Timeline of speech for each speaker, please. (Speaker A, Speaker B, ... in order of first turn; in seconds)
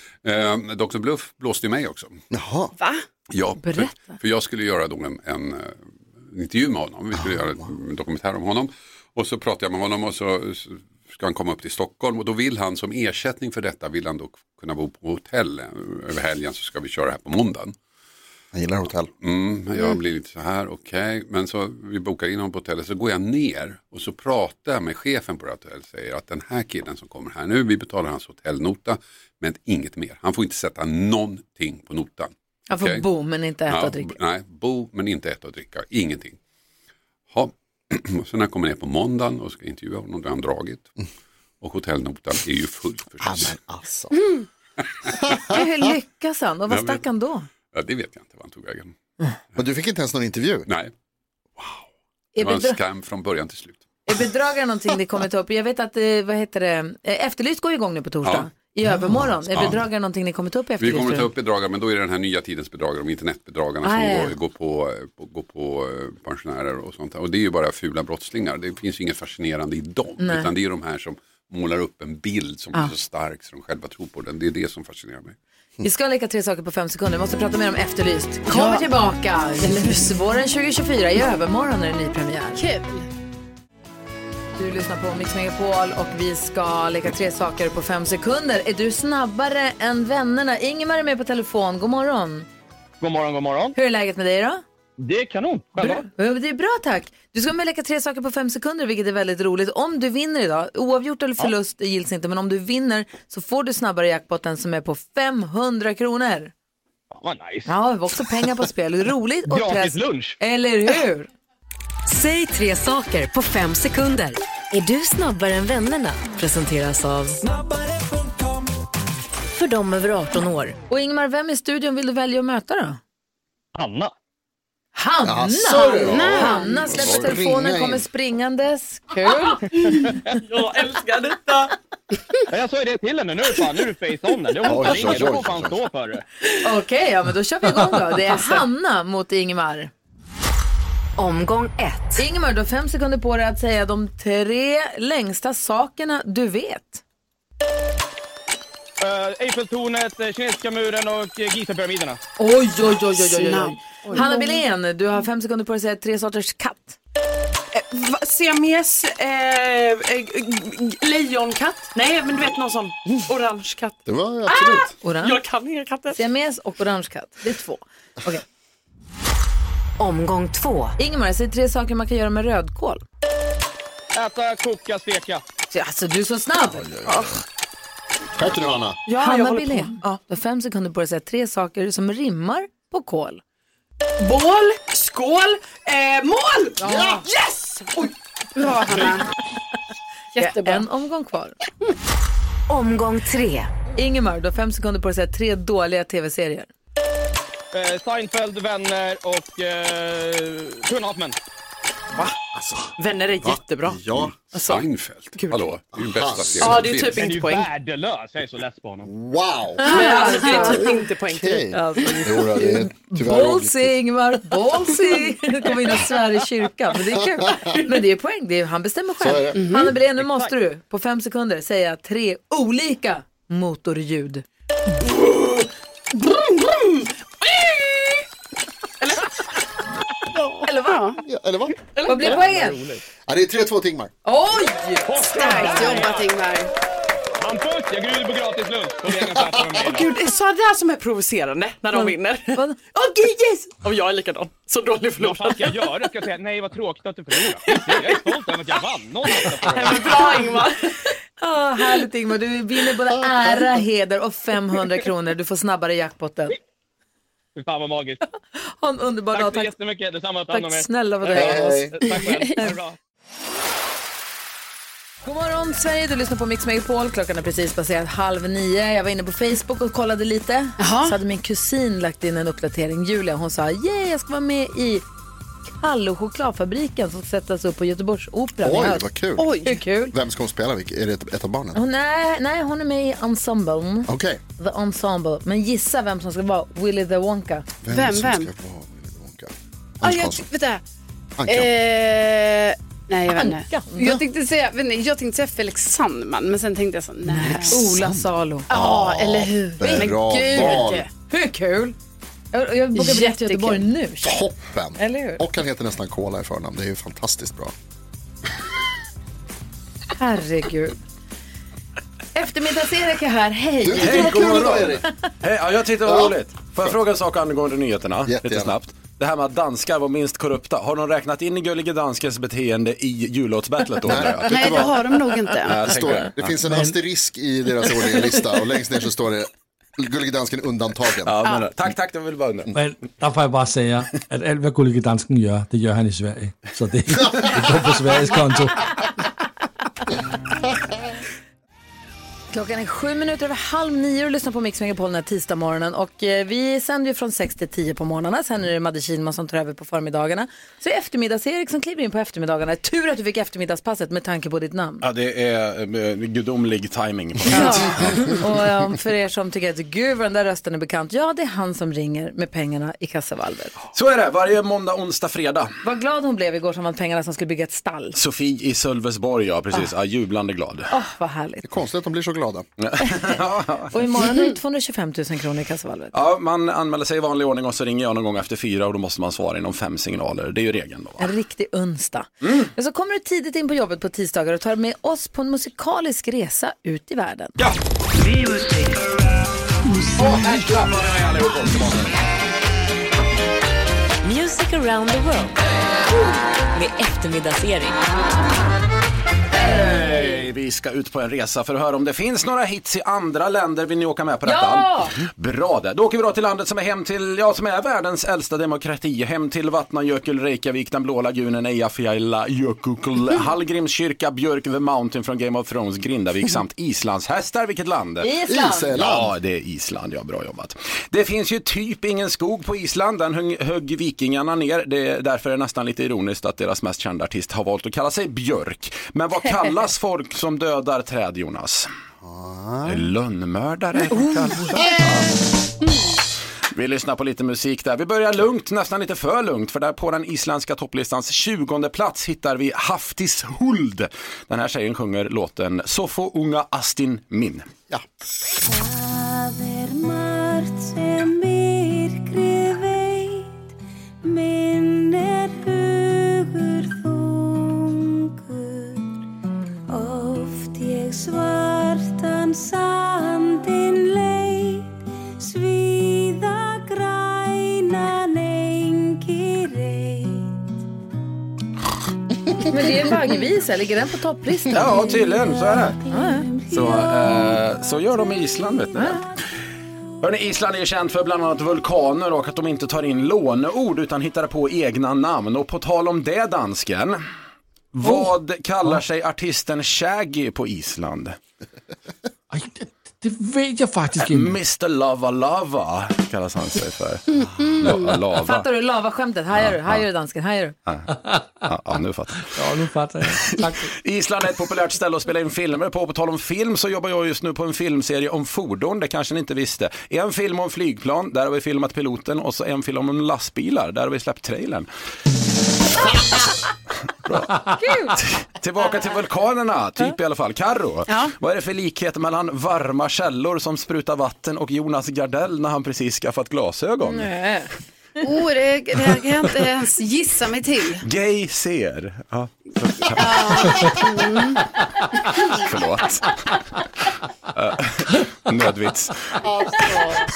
Speaker A: 0.2-2.2, 3.3-17.7, 19.2-33.0, 33.7-36.4, 37.3-40.9, 41.6-43.5, 45.0-45.4, 46.7-47.0, 47.7-48.9, 50.7-50.9, 52.4-53.8, 58.2-58.5, 59.5-59.8, 60.8-75.3, 204.5-207.2
Speaker B: 2.3-2.7, 18.5-19.1, 43.2-44.1, 49.5-50.7, 125.2-128.1, 134.6-135.8, 164.1-164.9, 176.7-177.4, 178.3-179.0, 186.8-187.2, 202.5-202.9, 203.4-204.3, 205.9-206.9, 209.0-209.9, 210.5-214.0, 217.4-217.8, 219.2-219.6, 231.2-231.8, 233.3-234.1, 261.3-262.0, 278.6-279.6, 280.1-281.8, 284.1-284.4, 287.8-290.5, 291.4-291.7, 297.5-301.1, 304.2-307.7, 313.8-315.0, 316.0-316.9, 318.2-318.8, 324.0-325.0, 325.7-331.4, 371.6-372.6, 418.5-419.3, 432.2-433.1, 539.6-540.0
Speaker C: 2.8-3.0, 78.5-78.8, 79.7-80.0, 82.5-83.1, 126.0-126.8, 153.2-154.3, 188.6-189.2, 190.3-190.8, 219.5-219.9, 230.8-231.2, 235.3-236.7, 270.8-271.2, 279.4-279.8, 287.9-288.5, 290.0-290.8, 291.5-297.8, 298.7-301.1, 302.9-303.9, 324.4-326.0, 497.3-498.2, 521.1-521.3, 528.2-531.0, 533.1-534.6
Speaker D: 3.6-4.2, 32.7-34.1, 45.5-47.5, 52.3-52.8, 54.0-61.3, 63.8-64.3, 70.2-70.5, 75.8-82.6, 84.6-92.5, 93.7-94.6, 95.8-106.5, 107.7-111.3, 120.9-123.0, 124.9-130.0, 136.6-139.9, 142.2-147.0, 152.4-157.0, 165.0-165.4, 166.1-168.4, 171.0-173.0, 175.7-176.9, 179.2-183.4, 186.8-187.3, 190.4-191.6, 193.9-196.7, 209.8-211.0, 211.7-224.4, 230.7-231.0, 232.1-232.8, 234.2-236.0, 241.9-242.8, 250.2-250.5, 251.4-256.6, 258.6-259.7, 260.5-262.8, 265.2-275.0, 275.8-279.1, 279.6-280.1, 281.7-287.7, 293.3-294.1, 297.3-298.7, 301.3-301.9, 302.5-304.4, 305.0-305.4, 310.2-310.9, 312.3-315.0, 342.5-355.0, 357.5-363.7, 365.8-368.1, 370.9-371.6, 373.9-376.1, 381.2-387.6, 404.4-405.1, 418.2-418.9, 472.6-474.9, 476.1-476.4, 498.3-500.7, 517.8-518.2, 527.0-527.7
Speaker E: 93.0-93.8, 95.0-96.1, 107.1-107.7, 109.5-110.3, 123.7-124.1, 129.9-130.2, 132.5-136.2, 149.0-152.2, 174.1-175.4, 197.7-201.4, 207.1-209.1, 220.2-220.5, 232.3-232.9, 235.1-236.3, 237.4-240.1, 245.2-250.4, 257.5-258.2, 259.3-263.0
Speaker F: 112.1-117.4, 119.5-120.8, 141.2-142.2, 170.0-170.9, 192.7-193.7, 394.2-395.6, 396.7-398.0
Speaker G: 130.5-131.7, 157.9-163.9, 164.5-166.2, 179.1-180.1, 184.2-188.1, 203.0-204.0, 204.5-204.8, 206.6-207.7, 209.9-211.7, 231.9-232.5, 239.9-245.9, 247.7-248.1, 249.7-250.8
Speaker H: 314.0-324.8, 325.6-326.5, 331.2-332.7, 355.0-358.4, 363.9-365.7, 368.1-370.9, 372.8-373.9, 376.1-381.3, 382.4-382.7, 390.1-392.1, 399.5-418.3, 418.9-431.9, 432.9-435.1, 436.7-447.7, 474.7-476.0, 476.7-479.2, 480.2-487.2, 487.9-491.4, 494.2-497.2, 497.8-498.7, 499.5-500.0, 501.6-502.5, 503.4-514.9, 516.0-516.4, 517.2-517.6, 518.1-527.3, 531.0-533.7, 535.5-536.4, 537.5-540.0
Speaker I: 326.6-326.9, 332.7-339.0, 492.5-494.6, 501.1-501.6, 502.4-503.9
Speaker J: 448.6-453.7, 454.2-459.2, 459.9-470.7, 474.8-477.6